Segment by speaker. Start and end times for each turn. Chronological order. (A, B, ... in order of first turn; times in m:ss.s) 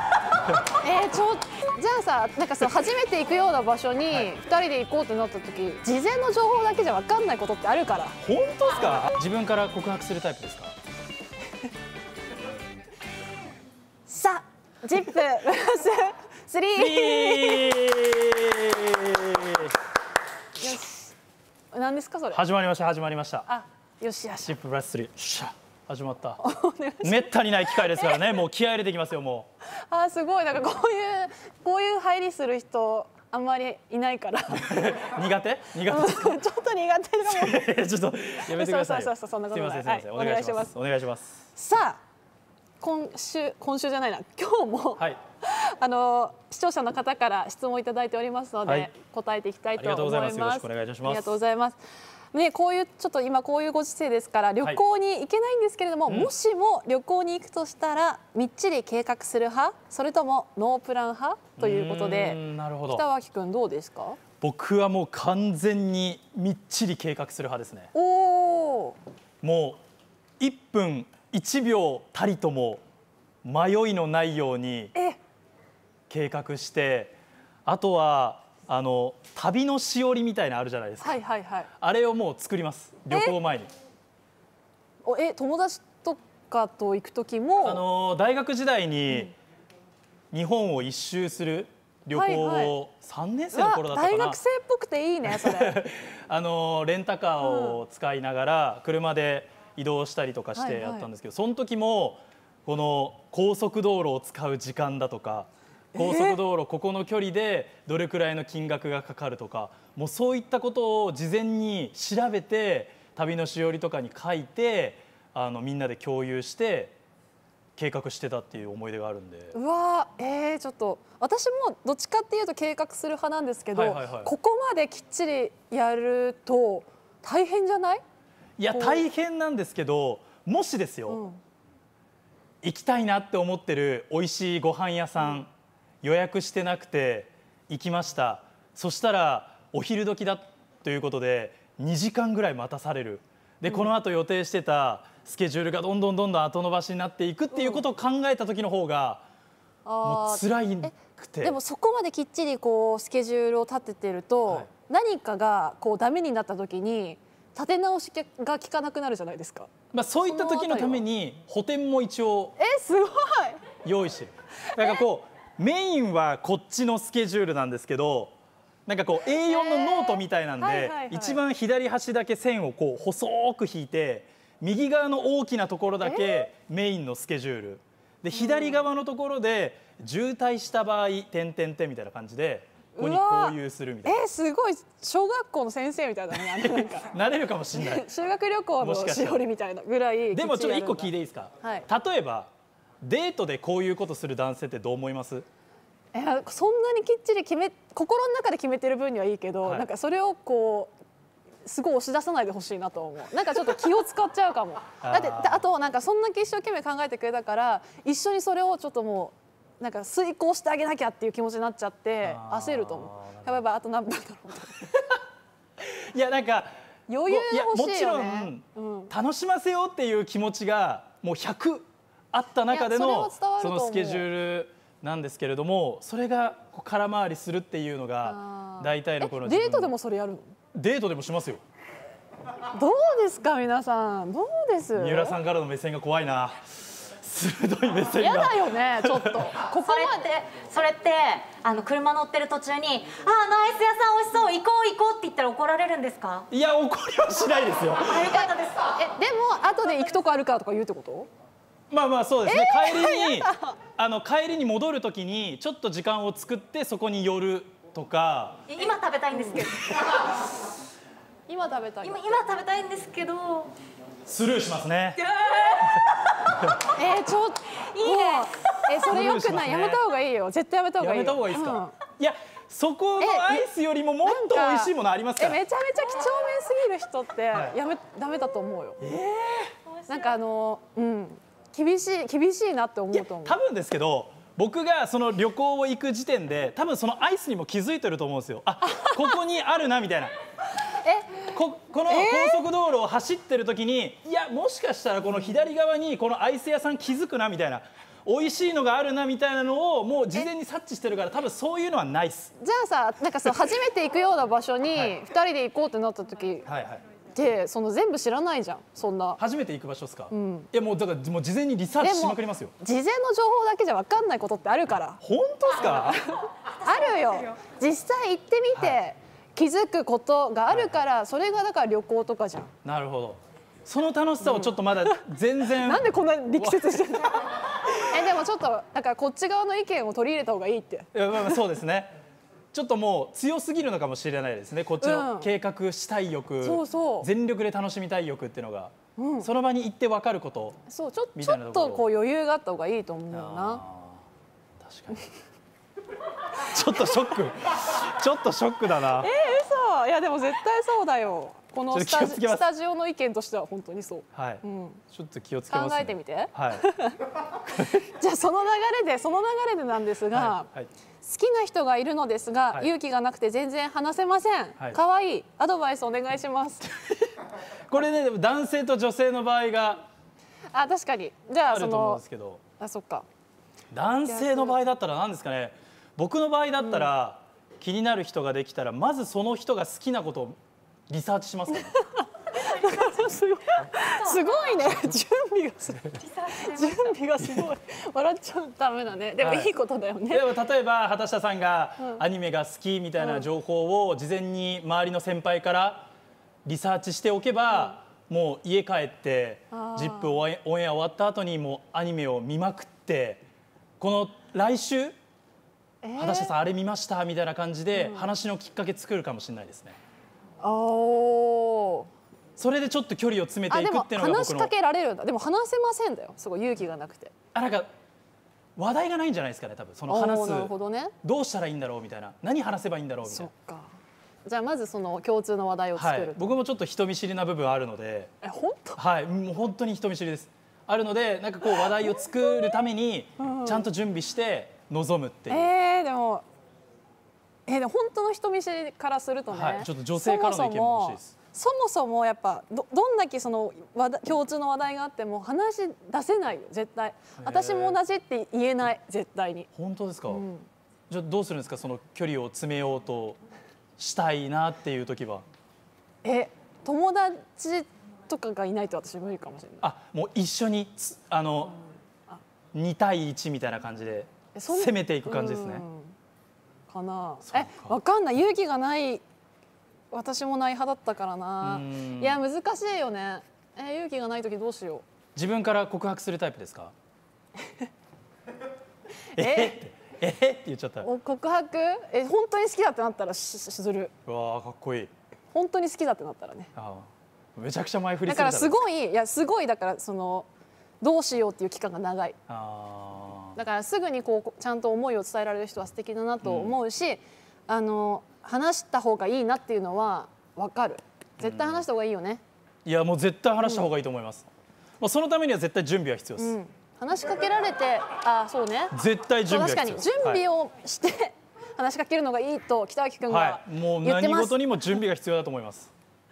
0:00.8-0:08.2 A
0:08.2-0:10.8 B
0:14.1-0:17.8 A
0:16.8-0:19.8 B
0:20.6-0:21.2 A
0:21.7-0:22.4 A
0:22.3-0:23.5 B
0:23.5-0:24.6 A
0:24.4-0:26.4 B
0:26.4-0:28.3 A
0:27.0-0:29.5 B
0:29.9-0:35.0 A
0:34.5-0:36.4 B
0:35.8-0:37.7 A
0:37.2-0:41.4 B
0:38.4-0:40.8 A
0:41.6-0:42.0 A
0:42.8-0:51.8 A
0:48.6-0:48.9 B
0:49.8-0:51.4 B
0:52.3-1:04.2 A
0:56.1-0:56.3 B
1:01.6-1:03.1 B
1:04.4-1:07.9 B
1:07.9-1:09.0 A
1:09.4-1:09.8 B
1:10.4-1:12.8 B
1:13.4-1:14.9 B
1:16.1-1:21.2 B
1:21.0-1:21.7 A
1:21.8-1:23.7 B
1:23.1-1:23.4 A
1:25.0-1:27.8 A
1:27.6-1:29.3 B
1:30.3-1:34.4 B
1:32.1-1:32.8 A
1:33.5-1:35.8 A
1:35.2-1:57.0 B
1:37.4-1:37.8 A
1:40.6-1:41.1 A
1:46.0-1:46.4 A
1:57.8-1:59.6 B
1:59.5-2:08.0 A
2:03.7-2:04.3 B
2:08.6-2:11.2 B
2:08.7-2:09.1 A
2:11.1-2:11.4 A
2:12.6-2:15.5 B
2:16.0-2:29.2 B
2:23.7-2:23.9 A
2:27.5-2:27.9 A
2:29.9-2:30.4 A
2:30.0-2:31.6 B
2:31.4-2:41.0 A
2:39.9-2:42.6 B
2:42.6-2:43.6 A
2:43.8-2:48.3 B
2:48.9-3:04.2 B
2:49.5-2:51.4 A
2:56.0-2:56.5 A
2:58.4-2:58.8 A
3:03.0-3:07.2 A
3:06.4-3:08.1 B
3:07.7-3:11.9 A
3:08.8-3:09.4 B
3:10.3-3:12.5 B
3:13.0-3:15.5 B
3:16.1-3:20.9 A
3:21.6-3:34.9 A
3:25.0-3:25.7 B
3:32.2-3:33.6 B
3:35.8-3:36.7 B
3:37.1-3:39.1 A
3:37.2-3:49.9 B
3:42.7-3:44.3 A
3:48.2-3:50.6 A
3:50.7-3:51.6 B
3:52.7-3:55.4 A
3:55.0-3:59.6 B
3:58.2-4:00.3 A
3:59.8-4:06.5 C
4:06.5-4:08.4 B
4:08.0-4:09.0 C
4:08.2-4:11.3 A
4:11.9-4:18.7 B
4:12.4-4:13.6 A
4:18.7-4:20.2 C
4:19.3-4:19.6 A
4:21.5-4:22.3 A
4:22.0-4:23.7 C
4:24.3-4:25.3 B
4:25.2-4:25.8 C
4:26.9-4:32.0 A
4:27.8-4:28.8 C
4:29.0-4:30.0 B
4:31.0-4:35.6 B
4:33.2-4:33.7 A
4:34.2-4:39.0 A
4:39.0-4:39.7 B
4:40.1-4:43.6 A
4:43.1-4:50.3 B
4:51.0-4:51.4 A
4:51.4-5:02.5 B
4:52.1-4:52.6 A
5:02.6-5:06.7 A
5:04.9-5:05.2 B
5:06.6-5:07.0 B
5:07.4-5:09.4 A
5:09.4-5:12.7 B
5:10.3-5:10.7 A
5:12.0-5:15.2 A
5:15.2-5:16.3 B
5:15.8-5:22.7 A
5:18.7-5:19.0 B
5:20.7-5:21.0 B
5:22.8-5:27.1 B
5:24.4-5:24.9 A
5:25.7-5:31.6 A
5:31.1-5:32.2 B
5:32.7-5:40.8 B
5:35.0-5:35.5 A
5:36.6-5:37.3 A
5:39.2-5:39.5 A
5:40.9-5:43.8 A
5:41.4-5:42.1 B
5:43.3-5:44.3 B
5:44.8-5:45.2 B
5:46.5-5:49.3 B
5:49.1-5:55.0 A
5:51.9-5:52.7 B
5:54.3-5:56.9 B
5:55.7-5:57.2 A
5:57.6-5:58.1 B
5:57.8-6:00.7 A
6:00.3-6:00.9 B
6:01.2-6:06.9 A
6:07.0-6:07.3 B
6:07.9-6:10.0 B
6:10.7-6:12.2 A
6:11.7-6:12.6 B
6:12.8-6:13.3 A
6:13.9-6:20.6 B
6:14.3-6:14.8 A
6:16.8-6:17.1 A
6:21.1-6:22.0 B
6:21.8-6:30.5 A
6:24.2-6:24.8 C
6:26.2-6:27.0 C
6:29.4-6:29.7 B
6:30.3-6:36.1 B
6:32.0-6:32.2 A
6:33.2-6:33.5 A
6:36.6-6:43.4 B
6:39.7-6:40.4 A
6:44.0-6:45.2 B
6:46.0-6:46.6 A
6:46.2-6:50.0 B
6:48.0-6:48.3 A
6:50.6-6:52.1 A
6:52.6-6:54.7 B
6:53.7-6:57.3 A
6:57.5-6:57.9 B
6:58.8-7:03.5 B
7:00.1-7:01.2 A
7:03.2-7:03.9 A
7:04.5-7:06.5 A
7:06.0-7:08.3 B
7:08.4-7:09.0 A
7:09.0-7:15.7 B
7:11.6-7:12.7 A
7:13.4-7:13.9 A
7:15.5-7:16.4 A
7:17.7-7:29.7 A
7:19.5-7:21.3 B
7:27.4-7:28.0 B
7:29.8-7:30.4 B
7:30.3-7:30.7 A
7:31.1-7:33.4 B
7:34.0-7:35.4 B
7:36.2-7:39.9 A
7:39.8-7:41.8 B
7:42.7-7:45.9 B
7:44.6-7:46.2 A
7:46.9-7:49.2 A
7:47.4-7:48.0 B
7:50.1-7:55.0 A
7:51.6-7:52.4 B
7:55.4-7:56.9 B
7:59.3-8:01.1 B
7:59.4-7:59.8 A
8:01.0-8:04.1 A
8:04.3-8:05.1 B
8:05.5-8:06.7 A
8:06.8-8:08.8 B
8:08.3-8:10.5 A
8:11.0-8:12.4 A
8:12.5-8:13.6 B
8:13.6-8:22.4 A
8:16.4-8:16.8 B
8:21.4-8:21.8 B
8:22.8-8:24.4 B
8:23.6-8:23.9 A
8:25.0-8:26.6 B
8:26.4-8:29.0 A
8:28.9-8:30.4 B
8:29.5-8:35.0 A
8:33.3-8:35.9 B